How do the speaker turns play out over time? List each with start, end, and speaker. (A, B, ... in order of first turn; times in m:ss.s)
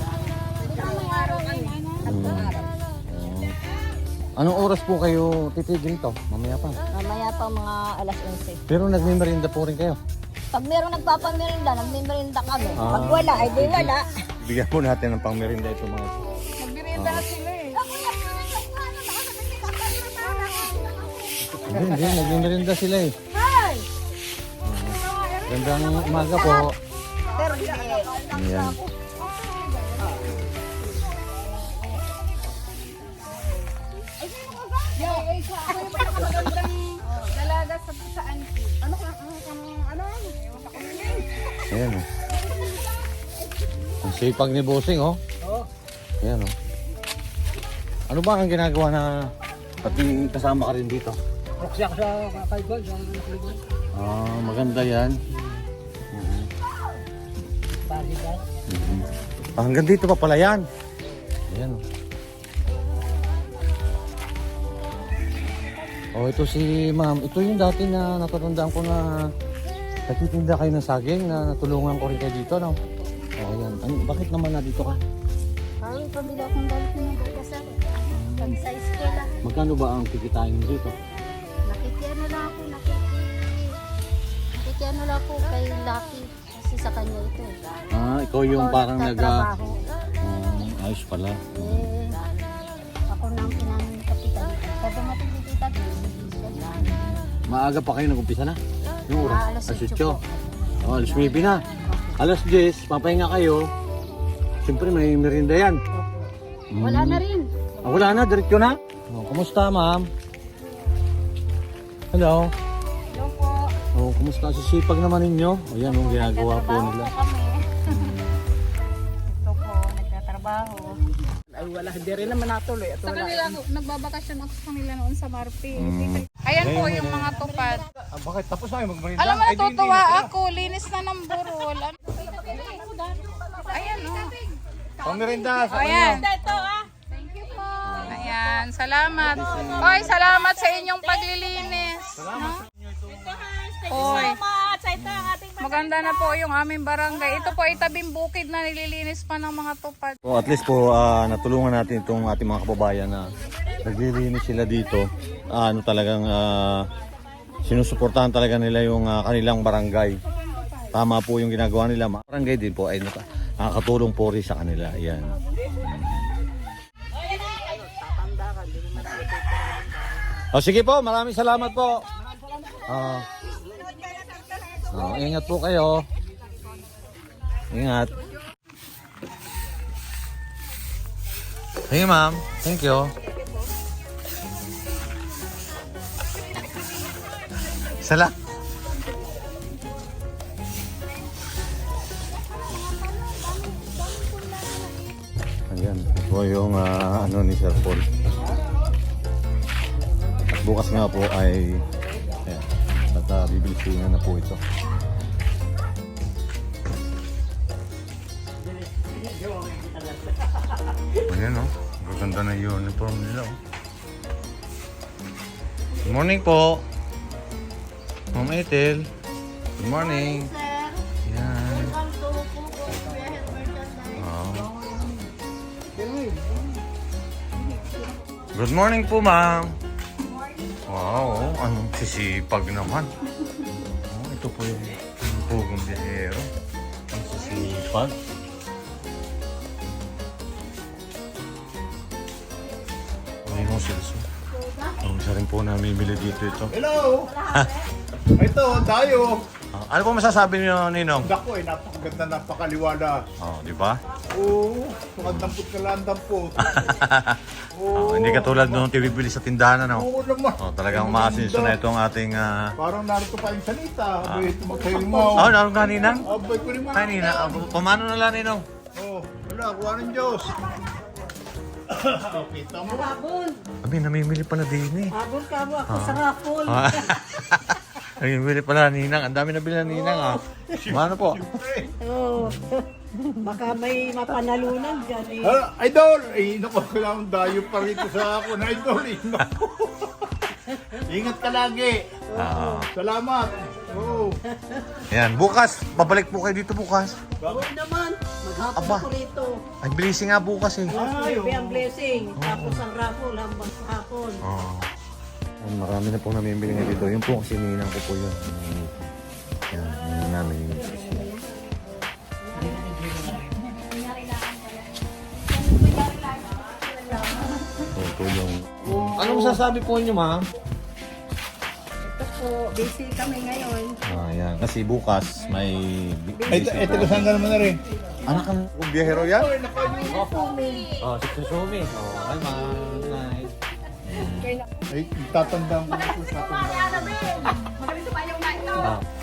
0:00.6-0:02.7 A
0:00.6-0:02.2 B
0:02.1-0:02.5 C
0:03.1-0:03.5 C
0:04.4-0:06.8 C
0:06.9-0:08.6 A
0:08.7-0:10.0 C
0:10.5-0:14.0 A
0:12.8-0:16.3 C
0:16.6-0:17.8 B
0:17.0-0:17.3 C
0:17.8-0:22.3 A
0:19.8-0:20.7 B
0:21.5-0:22.1 B
0:21.6-0:23.1 C
0:23.3-0:23.8 A
0:24.7-0:26.7 C
0:24.9-0:26.7 B
0:26.4-0:26.7 A
0:27.3-0:30.6 B
0:27.3-0:28.3 A
0:28.3-0:28.8 C
0:31.5-0:32.2 B
0:34.4-0:41.6 B
0:34.4-0:35.1 A
0:35.8-0:36.3 A
0:41.7-0:42.1 C
0:44.0-0:45.2 C
0:46.2-0:46.5 C
0:48.1-0:49.1 C
0:49.8-0:51.2 C
0:51.7-0:53.4 D
0:53.9-0:55.2 C
0:56.1-0:56.5 C
0:58.7-1:00.6 C
1:01.5-1:01.8 C
1:06.2-1:09.1 C
1:10.1-1:12.8 C
1:13.4-1:15.0 C
1:18.1-1:18.6 C
1:18.4-1:19.3 A
1:19.4-1:21.0 C
1:21.7-1:23.6 A
1:24.6-1:27.6 A
1:27.9-1:29.5 C
1:28.5-1:29.8 A
1:30.2-1:31.9 C
1:31.6-1:32.2 A
1:33.1-1:36.8 A
1:36.8-1:38.6 C
1:39.1-1:40.2 C
1:39.2-1:40.2 A
1:40.8-1:41.6 C
1:40.8-1:42.2 A
1:42.2-1:43.7 C
1:44.6-1:45.8 C
1:46.7-1:47.2 C
1:46.9-1:47.5 A
1:47.8-1:50.1 C
1:52.1-1:52.5 C
1:53.1-1:53.7 B
1:53.9-1:57.1 C
1:55.9-1:57.6 B
1:57.9-1:58.2 C
1:59.3-2:01.0 A
2:01.5-2:03.5 A
2:03.0-2:07.9 B
2:05.8-2:07.3 C
2:08.0-2:10.3 C
2:09.2-2:12.8 B
2:12.1-2:13.9 A
2:13.6-2:14.4 B
2:15.0-2:16.5 C
2:15.7-2:16.3 B
2:16.0-2:16.9 A
2:17.2-2:22.6 B
2:17.8-2:18.3 C
2:19.2-2:20.1 C
2:19.4-2:21.1 A
2:22.2-2:22.5 C
2:23.0-2:26.3 A
2:23.8-2:24.4 B
2:25.0-2:25.3 C
2:25.6-2:30.2 B
2:30.2-2:36.9 C
2:37.6-2:40.2 C
2:40.3-2:40.9 B
2:40.9-2:46.3 C
2:50.5-2:52.0 C
2:52.8-2:53.3 C
2:54.8-2:55.0 A
2:54.9-2:56.0 C
2:57.7-2:58.2 C
3:01.9-3:03.1 C
3:07.8-3:08.4 C
3:13.3-3:13.9 A
3:15.7-3:18.1 C
3:20.5-3:21.8 C
3:22.4-3:24.6 C
3:31.2-3:33.6 C
3:36.0-3:36.8 C
3:38.3-3:39.1 C
3:39.8-3:40.5 C
3:40.0-3:41.0 A
3:41.2-3:42.0 C
3:41.8-3:44.1 A
3:44.2-3:44.7 C
3:46.0-3:46.4 E
3:48.5-3:49.8 C
3:50.9-3:53.1 C
3:53.9-3:56.5 C
3:57.1-3:58.2 C
4:03.4-4:04.2 C
4:05.0-4:06.8 C
4:06.7-4:07.3 E
4:07.5-4:07.7 C
4:08.4-4:09.5 E
4:09.7-4:11.3 C
4:11.2-4:13.3 E
4:13.4-4:14.0 C
4:14.3-4:16.9 E
4:15.2-4:15.6 C
4:16.6-4:17.4 C
4:17.7-4:18.9 E
4:18.0-4:22.7 C
4:19.9-4:21.8 E
4:22.8-4:25.6 E
4:24.2-4:24.5 C
4:25.3-4:26.3 C
4:26.2-4:27.6 E
4:26.9-4:28.6 C
4:29.0-4:30.6 E
4:31.9-4:33.2 E
4:33.0-4:33.6 D
4:33.8-4:35.2 C
4:35.2-4:36.8 D
4:35.9-4:41.5 C
4:40.7-4:42.0 E
4:42.1-4:42.6 D
4:43.4-4:45.5 D
4:45.4-4:50.3 E
4:50.9-4:52.2 E
4:52.3-4:52.9 C
4:53.0-4:54.4 E
4:55.1-4:57.2 C
4:57.4-4:57.7 E
4:57.5-4:59.6 D
4:58.7-4:59.1 C
4:59.8-5:01.0 C
5:00.9-5:01.9 E
5:01.0-5:04.4 D
5:02.4-5:02.9 C
5:04.4-5:04.9 C
5:05.6-5:09.1 C
5:09.7-5:11.0 C
5:13.4-5:14.8 B
5:15.6-5:17.8 B
5:17.9-5:20.4 C
5:22.0-5:24.0 B
5:24.0-5:27.4 C
5:26.5-5:27.8 E
5:28.3-5:29.5 C
5:29.0-5:30.5 E
5:29.9-5:31.0 B
5:30.1-5:30.4 C
5:31.0-5:33.5 C
5:34.0-5:34.5 C
5:34.9-5:37.4 E
5:37.3-5:38.9 A
5:37.9-5:38.7 B
5:38.8-5:39.0 C